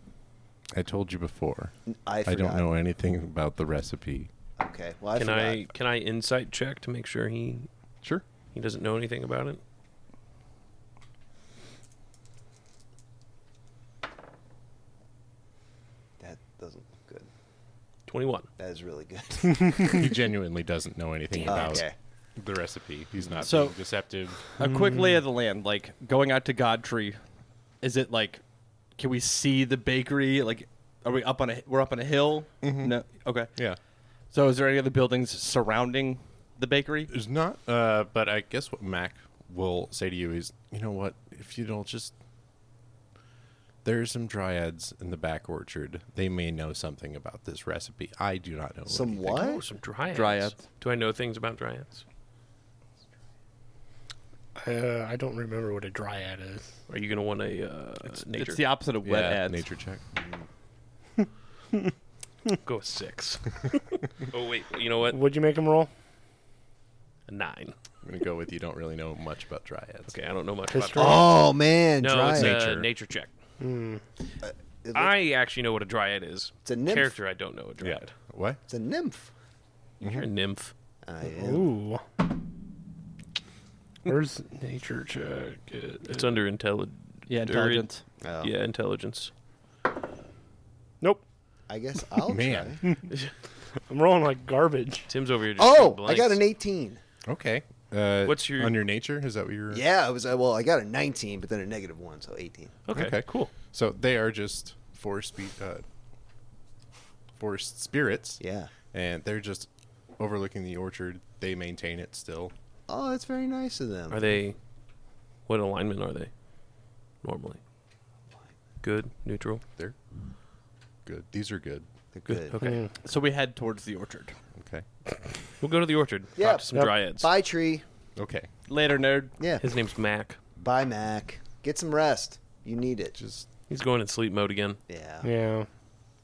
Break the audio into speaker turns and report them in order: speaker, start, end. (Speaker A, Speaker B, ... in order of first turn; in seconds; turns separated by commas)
Speaker A: 0.7-1.7, Speaker B: 1.9-2.7, Speaker A: 2.3-4.3, Speaker B: 4.6-5.7, Speaker C: 5.2-7.7, Speaker C: 8.5-9.6, Speaker B: 16.2-17.3, Speaker C: 18.1-18.5, Speaker B: 18.6-20.0, Speaker A: 19.8-24.5, Speaker B: 21.4-21.9, Speaker D: 23.4-23.8, Speaker D: 24.5-27.2, Speaker E: 24.6-25.2, Speaker D: 27.8-28.4, Speaker D: 29.0-33.5, Speaker A: 32.6-33.0, Speaker D: 34.3-37.1, Speaker A: 37.1-42.1, Speaker A: 43.8-49.5, Speaker B: 48.9-49.6, Speaker C: 49.3-52.0, Speaker D: 50.1-50.6, Speaker E: 54.6-56.8, Speaker C: 56.9-58.6, Speaker D: 58.1-59.6, Speaker A: 59.0-60.1, Speaker C: 62.6-65.2, Speaker E: 65.1-65.9, Speaker C: 67.3-67.8, Speaker A: 68.0-70.1, Speaker C: 70.1-71.4, Speaker E: 70.7-71.3, Speaker B: 71.0-72.6, Speaker C: 72.0-73.3, Speaker A: 72.3-72.9, Speaker E: 73.6-74.0, Speaker B: 74.4-75.1, Speaker C: 74.9-78.1, Speaker B: 76.7-77.2, Speaker A: 77.8-78.6, Speaker B: 78.7-79.3, Speaker A: 80.0-80.3, Speaker C: 80.0-80.7, Speaker B: 81.0-81.7, Speaker E: 81.3-82.0, Speaker E: 84.1-86.0, Speaker C: 86.0-89.3, Speaker D: 87.3-88.0, Speaker B: 88.2-88.5, Speaker B: 91.7-92.8, Speaker A: 92.3-92.8, Speaker E: 93.9-95.1, Speaker C: 95.1-96.4, Speaker B: 95.6-97.0, Speaker A: 97.3-99.8, Speaker C: 98.2-98.8, Speaker B: 99.7-102.8, Speaker C: 102.9-103.5, Speaker A: 102.9-105.8, Speaker A: 107.4-112.5, Speaker B: 108.4-108.7, Speaker B: 112.9-114.3, Speaker C: 114.1-114.6, Speaker C: 115.5-116.3, Speaker C: 117.2-117.6, Speaker C: 118.8-119.6, Speaker A: 121.1-121.9, Speaker B: 122.1-122.6, Speaker C: 122.5-122.8, Speaker D: 122.5-124.4, Speaker E: 122.6-122.9, Speaker A: 124.6-124.8, Speaker C: 125.6-127.3, Speaker B: 126.4-127.8, Speaker A: 128.2-128.5, Speaker D: 128.7-129.3, Speaker B: 129.4-129.6, Speaker C: 129.6-130.4, Speaker B: 130.6-133.2, Speaker A: 133.2-133.5, Speaker C: 133.7-134.8, Speaker B: 134.9-135.3, Speaker E: 135.2-135.7